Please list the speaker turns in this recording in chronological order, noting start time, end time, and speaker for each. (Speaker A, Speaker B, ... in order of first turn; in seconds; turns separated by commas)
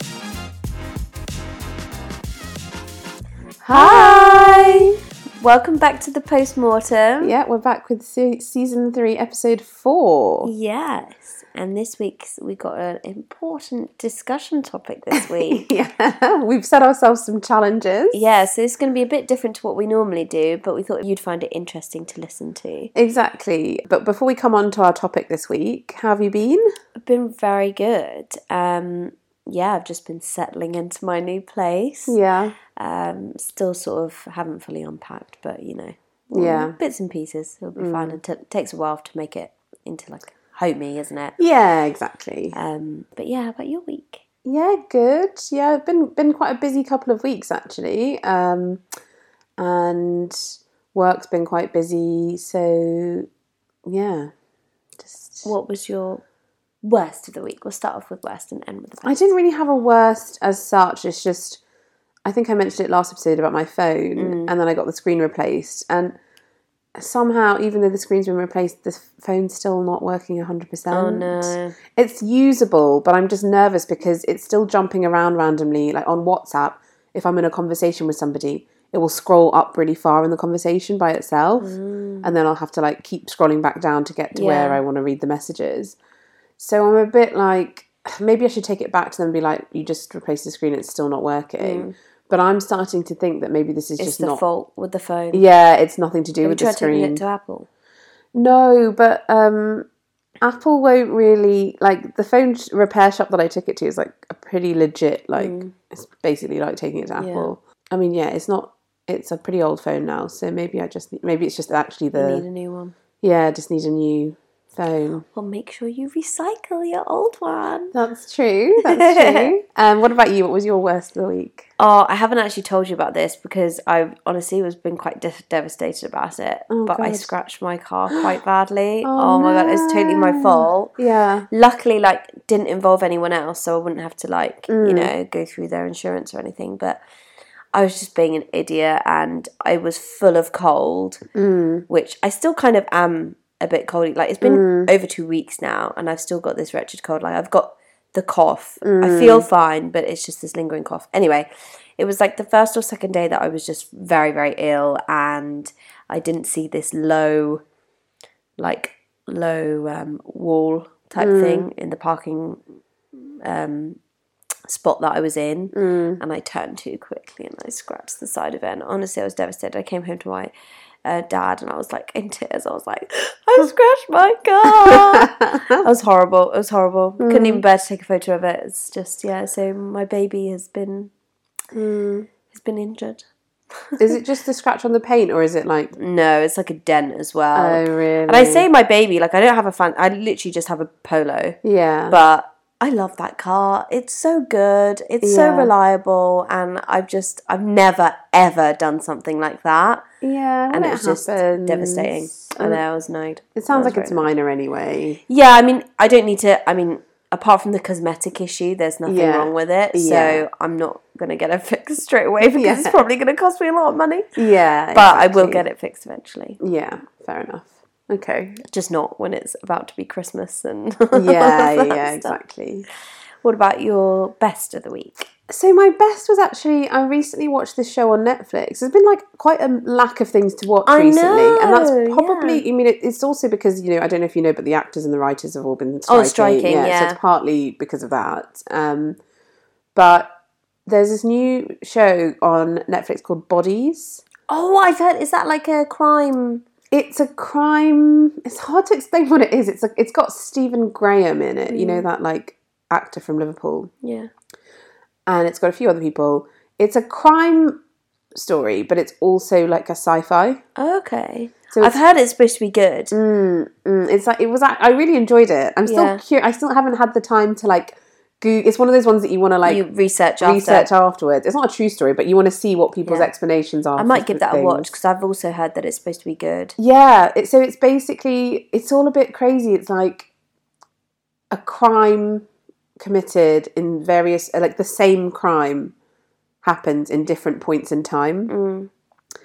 Speaker A: 3.6-4.9, Speaker B: 3.7-4.9, Speaker B: 5.4-7.3, Speaker A: 7.2-10.5, Speaker B: 10.4-15.6, Speaker A: 15.2-18.2, Speaker B: 18.1-22.9, Speaker A: 22.9-26.6, Speaker B: 27.0-32.2, Speaker A: 32.1-32.5, Speaker B: 32.8-41.4, Speaker A: 36.3-36.7, Speaker A: 37.8-38.2, Speaker A: 41.4-42.5, Speaker B: 42.5-44.2, Speaker A: 44.4-48.8, Speaker A: 49.6-53.3, Speaker A: 53.9-54.3, Speaker A: 55.0-55.5, Speaker B: 55.4-56.2, Speaker B: 56.8-59.2, Speaker A: 59.0-61.6, Speaker A: 62.2-66.2, Speaker B: 64.2-64.5, Speaker A: 67.0-86.0, Speaker B: 70.9-71.7, Speaker B: 81.6-82.3, Speaker B: 84.3-84.8, Speaker A: 86.6-94.4, Speaker B: 91.6-91.9, Speaker B: 94.0-95.4, Speaker A: 95.3-97.2, Speaker B: 96.4-97.7, Speaker A: 98.3-99.9, Speaker A: 100.4-112.4, Speaker B: 105.3-105.7, Speaker B: 107.2-107.5, Speaker B: 112.1-112.9, Speaker A: 113.2-115.2, Speaker B: 115.3-117.9, Speaker A: 117.9-121.6, Speaker B: 118.8-119.5, Speaker B: 121.8-130.9, Speaker A: 126.7-127.3, Speaker A: 129.0-131.4, Speaker B: 131.5-137.0, Speaker A: 134.7-135.1, Speaker B: 137.7-141.2, Speaker A: 141.3-141.8, Speaker B: 141.9-157.6, Speaker A: 144.4-144.9, Speaker A: 148.8-149.4, Speaker B: 158.6-162.6, Speaker A: 161.2-161.7, Speaker B: 163.4-164.0, Speaker B: 164.7-170.5, Speaker A: 165.7-166.2, Speaker B: 171.0-181.1, Speaker A: 174.6-175.8, Speaker A: 177.2-177.6, Speaker A: 181.7-182.3, Speaker B: 182.5-183.2, Speaker B: 183.8-184.2, Speaker A: 184.0-185.9, Speaker B: 186.0-191.6, Speaker A: 187.5-188.7, Speaker A: 191.6-192.2, Speaker B: 192.1-200.0, Speaker A: 195.2-195.7, Speaker A: 200.2-202.8, Speaker B: 200.7-204.2, Speaker A: 203.6-205.2, Speaker B: 205.3-214.3, Speaker A: 209.1-210.4, Speaker A: 212.6-212.9, Speaker A: 214.3-215.6, Speaker B: 214.9-216.6, Speaker A: 216.6-218.6, Speaker B: 218.6-222.3, Speaker A: 221.1-222.8, Speaker B: 223.4-225.3, Speaker A: 225.5-239.2, Speaker B: 230.8-232.6, Speaker B: 236.1-237.2, Speaker A: 239.9-240.3, Speaker A: 240.8-244.2, Speaker B: 244.5-246.6, Speaker A: 246.9-253.9, Speaker B: 251.7-252.1, Speaker B: 254.0-254.3, Speaker A: 255.3-257.8, Speaker A: 258.3-260.6, Speaker B: 260.8-263.1, Speaker A: 263.1-269.8, Speaker B: 265.9-266.2, Speaker B: 269.6-270.9, Speaker A: 270.4-274.9, Speaker B: 273.0-273.3, Speaker B: 273.9-276.7, Speaker A: 276.8-280.3, Speaker A: 281.5-282.4, Speaker A: 283.0-285.9, Speaker A: 286.6-288.5, Speaker B: 288.5-288.9